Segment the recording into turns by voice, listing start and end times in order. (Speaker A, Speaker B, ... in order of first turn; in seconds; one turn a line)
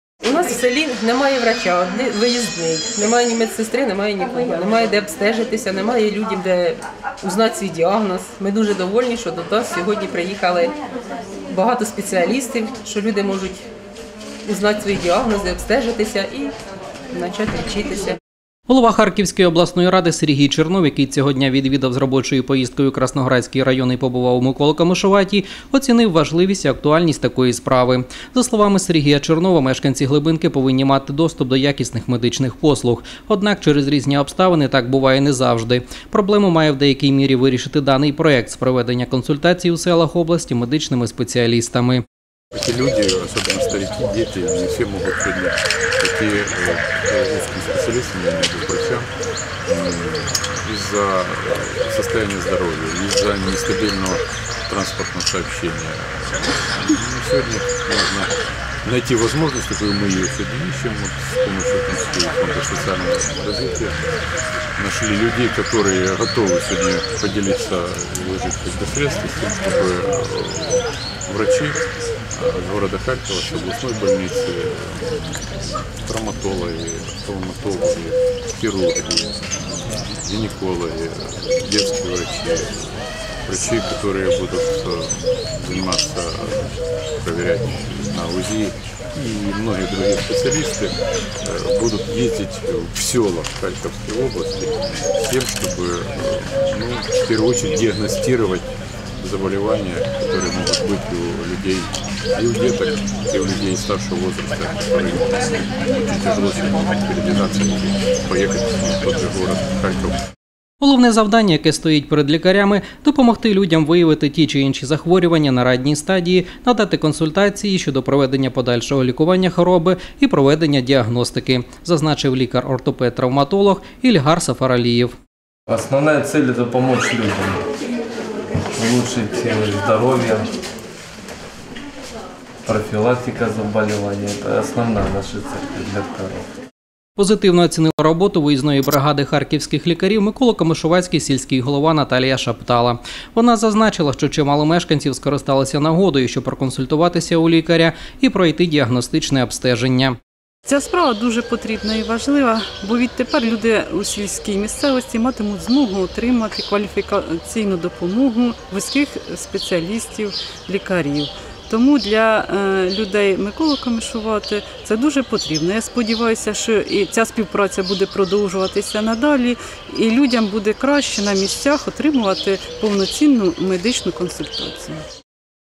Speaker A: 0.2-10.8
Speaker A: 11.5-13.7
Speaker A: 14.4-16.5
Speaker A: 17.1-18.2
Speaker B: 18.7-42.0
Speaker C: 42.5-49.1
Speaker C: 49.7-64.1
Speaker C: 64.8-110.2
Speaker B: 110.8-125.1
Speaker D: 125.7-127.7
Speaker D: 128.8-130.5
Speaker D: 132.7-136.4
Speaker B: 137.2-150.2
Speaker E: 150.7-175.0